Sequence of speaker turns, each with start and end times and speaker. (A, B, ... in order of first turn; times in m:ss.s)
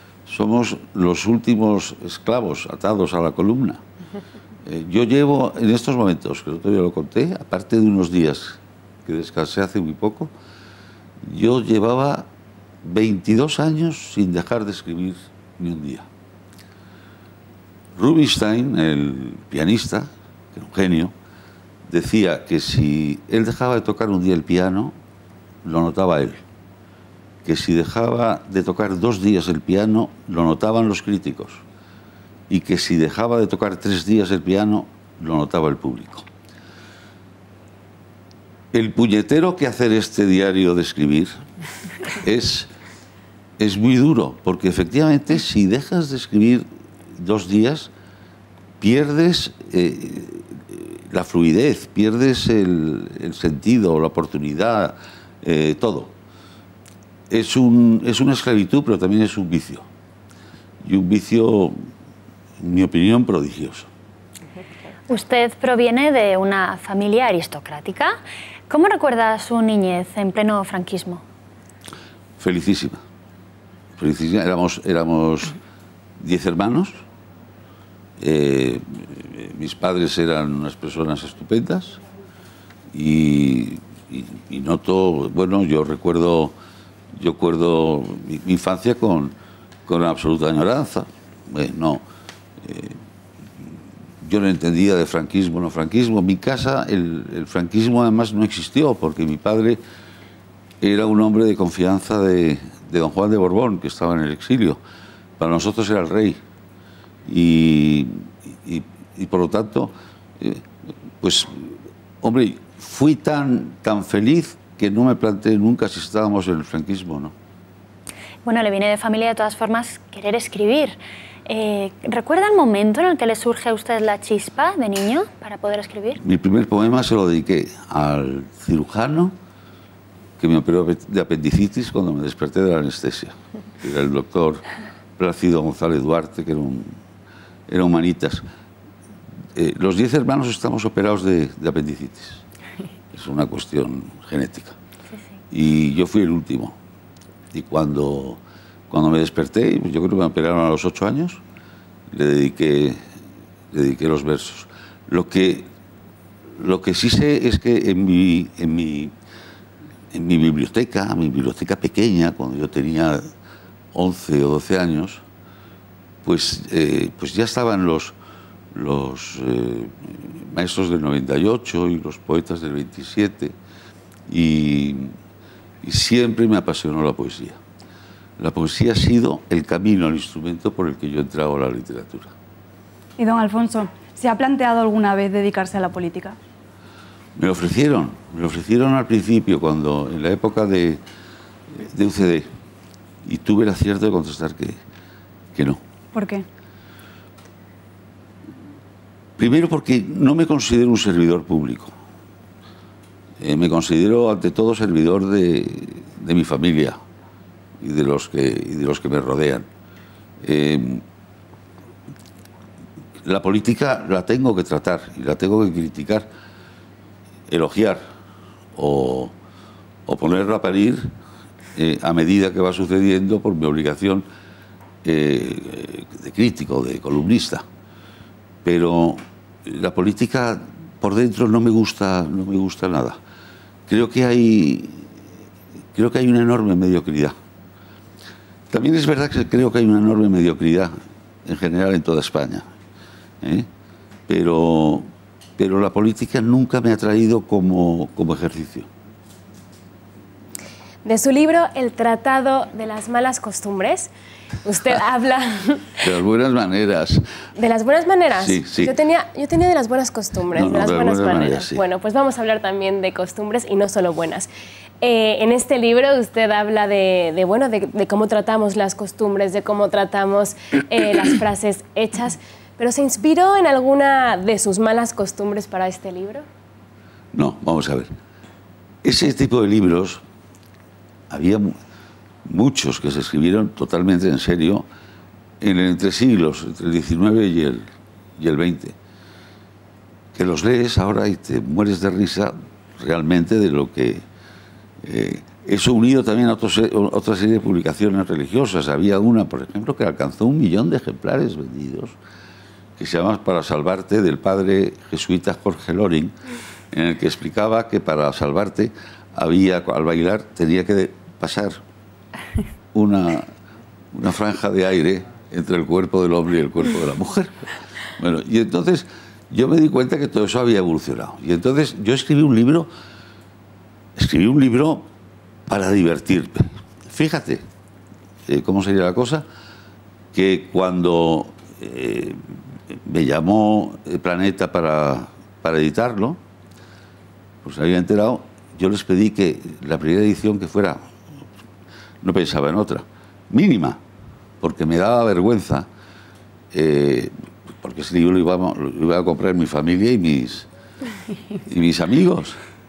0:00.2-0:03.8 A
0:04.6-0:10.3 A
0:11.2-0:12.3 A
0:12.8-0:16.1 A
0:18.0-0:21.1 A
0:21.9-0:25.0 A
0:25.6-0:26.4 A
0:27.4-0:31.6 A
0:32.5-0:36.3 A
0:38.7-0:41.4 A
0:42.2-0:42.7 A
0:43.6-0:47.9 A
0:48.8-0:56.1 A
0:57.3-0:59.8 A
1:00.8-1:01.8 A
1:02.6-1:03.9 A
1:05.1-1:08.2 B
1:08.7-1:11.2 B
1:12.4-1:13.0 A
1:14.0-1:15.6 A
1:16.2-1:17.0 A
1:18.2-1:22.0 A
1:22.9-1:26.5 A
1:27.1-1:29.3 A
1:29.8-1:32.0 A
1:32.6-1:33.0 A
1:34.2-1:39.8 A
1:40.8-1:44.8 A
1:45.4-1:46.4 A
1:47.2-1:50.6 A
1:51.2-1:57.3 A
1:58.4-2:06.2 B
2:06.2-2:09.3 A
2:10.4-2:14.6 A
2:15.2-2:16.9 A
2:17.7-2:18.4 A
2:19.5-2:22.4 A
2:23.1-2:24.8 A
2:25.5-2:26.8 A
2:27.5-2:31.4 A
2:32.1-2:33.0 A
2:33.7-2:35.7 A
2:36.6-2:39.1 A
2:40.1-2:43.3 A
2:43.9-2:45.2 A
2:46.2-2:48.1 A
2:48.7-2:53.6 A
2:54.3-2:55.1 A
2:55.8-2:57.6 A
2:58.4-3:02.3 A
3:03.2-3:06.4 C
3:07.4-3:11.0 A
3:11.8-3:12.5 A
3:13.2-3:14.8 A
3:15.5-3:15.8 A
3:16.1-3:16.4 C
3:19.4-3:21.9 A
3:23.4-3:27.0 A
3:27.8-3:29.7 A
3:30.4-3:31.0 A
3:33.2-3:36.3 A
3:37.5-3:38.0 A
3:38.7-3:39.3 A
3:40.0-3:41.1 A
3:41.8-3:44.2 A
3:45.0-3:47.6 A
3:48.6-3:53.2 A
3:53.9-3:55.1 A
3:55.9-3:57.3 A
3:58.7-4:00.9 A
4:01.4-4:02.7 A
4:03.4-4:03.7 A
4:04.3-4:08.9 A
4:11.0-4:14.1 D
4:14.6-4:15.9 D
4:16.0-4:17.2 A
4:17.6-4:24.5 D
4:18.4-4:19.0 A
4:20.5-4:21.8 A
4:25.0-4:36.4 D
4:37.3-4:38.1 A
4:39.0-4:40.2 A
4:41.3-4:41.8 A
4:42.4-4:44.8 A
4:45.6-4:47.8 A
4:48.4-4:49.0 A
4:50.3-4:54.2 A
4:55.0-5:02.2 A
5:03.0-5:06.4 A
5:06.9-5:11.8 A
5:12.9-5:13.5 A
5:14.1-5:17.6 A
5:18.2-5:22.9 A
5:24.2-5:25.1 A
5:25.7-5:27.6 A
5:28.5-5:29.4 A
5:30.3-5:36.4 A
5:37.6-5:41.1 A
5:42.2-5:44.0 A
5:44.6-5:45.9 A
5:46.7-5:50.7 A
5:51.6-5:52.6 A